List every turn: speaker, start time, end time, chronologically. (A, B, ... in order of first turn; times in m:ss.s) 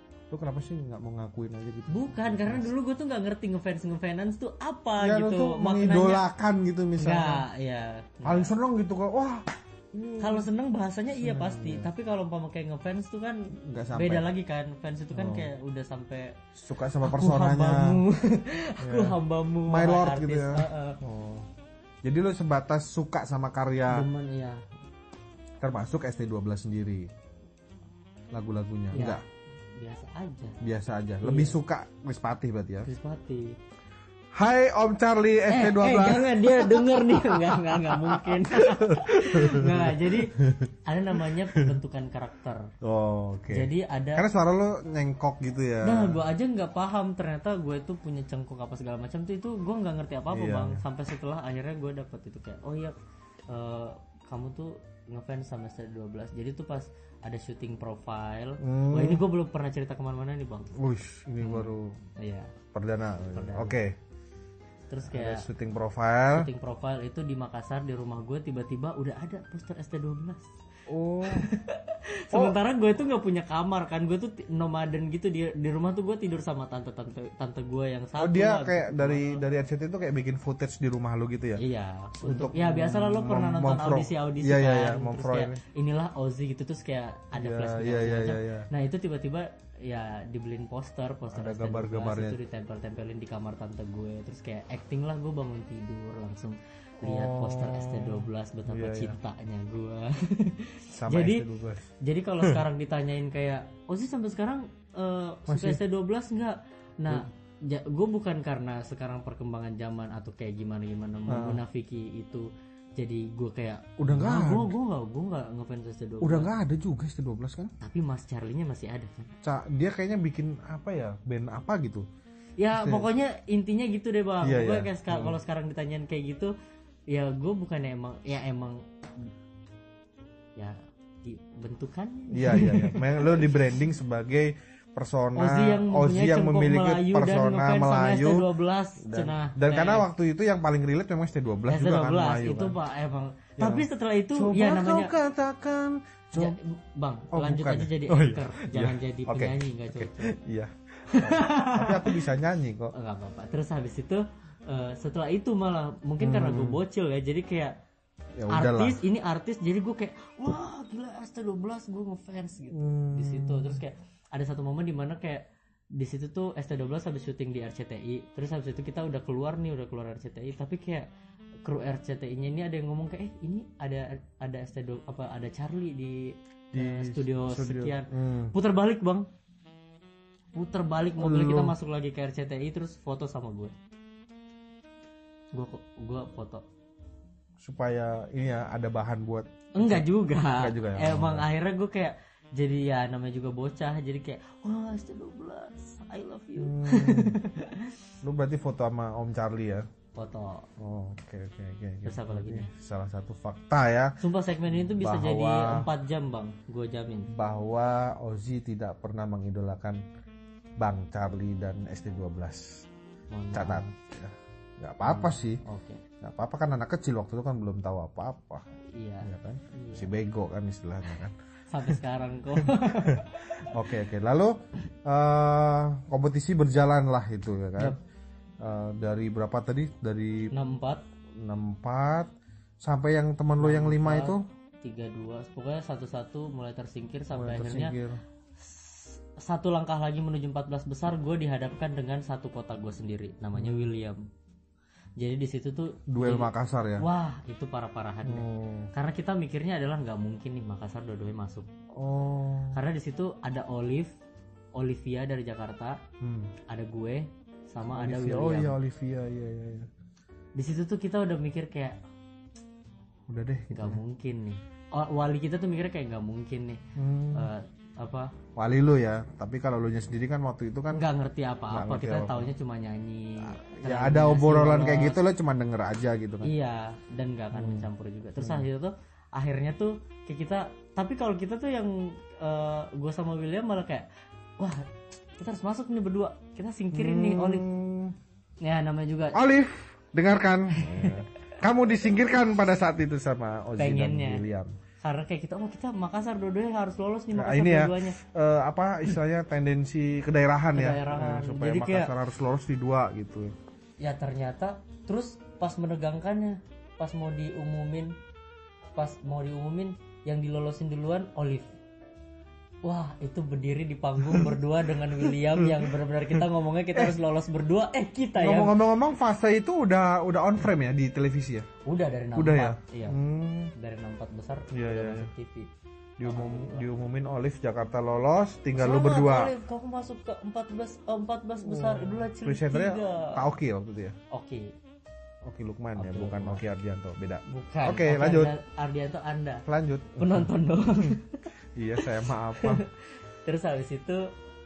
0:00.3-0:02.7 A
0:01.9-0:06.2 B
0:05.0-0:07.4 A
0:07.0-0:08.5 B
0:08.2-0:10.5 A
0:10.2-0:16.4 B
0:11.2-0:11.9 A
0:13.6-0:14.3 A
0:15.1-0:15.5 A
0:16.6-0:18.0 A
0:17.0-0:21.0 B
0:18.8-0:21.5 A
0:22.0-0:24.1 A
0:23.9-0:24.6 B
0:25.6-0:27.1 A
0:28.3-0:29.2 A
0:28.9-0:29.2 B
0:29.8-0:30.6 B
0:30.6-0:32.9 A
0:31.2-0:31.6 B
0:32.8-0:33.6 B
0:34.3-0:41.7 A
0:35.5-0:42.7 B
0:42.8-0:46.2 A
0:43.5-0:44.2 B
0:45.8-0:53.0 B
0:50.3-0:50.8 A
0:53.5-1:00.7 B
0:58.6-0:59.2 A
1:00.8-1:02.0 A
1:01.4-1:02.5 B
1:02.7-1:04.0 A
1:03.3-1:03.8 B
1:04.9-1:05.5 B
1:05.1-1:06.5 A
1:06.3-1:10.5 B
1:10.9-1:11.5 A
1:11.3-1:19.4 B
1:18.2-1:21.6 A
1:21.6-1:41.5 B
1:22.2-1:25.6 A
1:27.3-1:28.7 A
1:31.3-1:32.4 A
1:37.0-1:39.2 A
1:41.0-1:41.9 A
1:42.0-1:56.5 B
1:45.5-1:45.8 A
1:51.3-1:51.6 A
1:54.0-1:54.7 A
1:56.2-1:57.7 A
1:57.8-1:59.3 B
1:59.4-2:02.0 A
2:02.6-2:06.5 B
2:02.7-2:03.1 A
2:04.4-2:05.4 A
2:07.1-2:09.3 B
2:10.6-2:13.6 B
2:12.3-2:22.8 A
2:15.4-2:20.1 B
2:21.7-2:25.2 B
2:23.6-2:26.6 A
2:26.4-2:30.4 B
2:27.3-2:32.9 A
2:31.1-2:32.2 B
2:32.9-2:37.7 B
2:36.2-2:36.8 A
2:38.4-2:39.0 A
2:38.5-2:45.4 B
2:42.7-2:43.8 A
2:46.0-2:51.1 B
2:51.6-2:59.2 B
2:56.7-2:58.6 A
3:00.5-3:03.7 B
3:01.2-3:01.8 A
3:05.5-3:06.6 B
3:07.6-3:11.5 A
3:09.8-3:18.0 B
3:16.6-3:17.4 A
3:18.2-3:19.9 A
3:20.2-3:20.7 B
3:20.8-3:24.2 A
3:22.0-3:22.7 B
3:24.2-3:27.3 B
3:24.7-3:25.9 A
3:27.3-3:30.0 A
3:30.8-3:32.9 A
3:33.3-3:33.9 B
3:33.5-3:35.6 A
3:35.0-3:36.0 B
3:36.2-3:38.6 A
3:39.0-3:40.1 B
3:39.2-3:42.0 A
3:41.7-3:43.7 B
3:42.6-3:48.0 A
3:48.6-3:50.5 A
3:50.5-3:51.0 B
3:51.4-3:52.3 A
3:52.8-3:54.4 A
3:53.6-3:58.0 B
3:57.3-3:58.2 A
3:58.6-4:04.2 B
4:03.5-4:03.9 A
4:05.2-4:11.7 B
4:06.1-4:07.0 A
4:08.2-4:08.9 A
4:11.9-4:12.8 A
4:12.7-4:14.1 B
4:14.8-4:16.0 B
4:16.2-4:16.5 A
4:16.7-4:18.8 B
4:18.0-4:19.9 A
4:20.6-4:22.0 B
4:23.3-4:24.0 A
4:23.7-4:28.3 B
4:27.0-4:27.5 A
4:28.6-4:31.1 A
4:30.9-4:35.2 B
4:31.7-4:32.5 A
4:33.4-4:36.5 A
4:36.4-4:44.1 B
4:37.5-4:38.7 A
4:44.6-4:47.6 B
4:46.9-4:48.2 A
4:48.6-4:49.4 B
4:49.3-4:54.7 A
4:50.7-4:51.2 B
4:53.8-4:54.4 B
4:55.0-4:58.2 B
4:57.3-5:03.5 A
5:00.7-5:02.1 B
5:04.0-5:08.2 B
5:09.0-5:11.7 B
5:12.8-5:18.7 B
5:14.2-5:14.6 A
5:15.1-5:17.2 A
5:18.4-5:21.7 A
5:21.8-5:23.2 B
5:22.4-5:23.7 A
5:23.8-5:25.7 B
5:24.7-5:25.3 A
5:26.2-5:29.5 A
5:26.2-5:26.9 B
5:28.8-5:33.4 B
5:31.6-5:34.2 A
5:34.3-5:34.7 B
5:35.4-5:38.5 A
5:36.0-5:36.6 B
5:37.5-5:39.6 B
5:39.6-5:40.5 A
5:40.2-5:41.5 B
5:41.8-5:42.8 A
5:42.0-5:44.3 B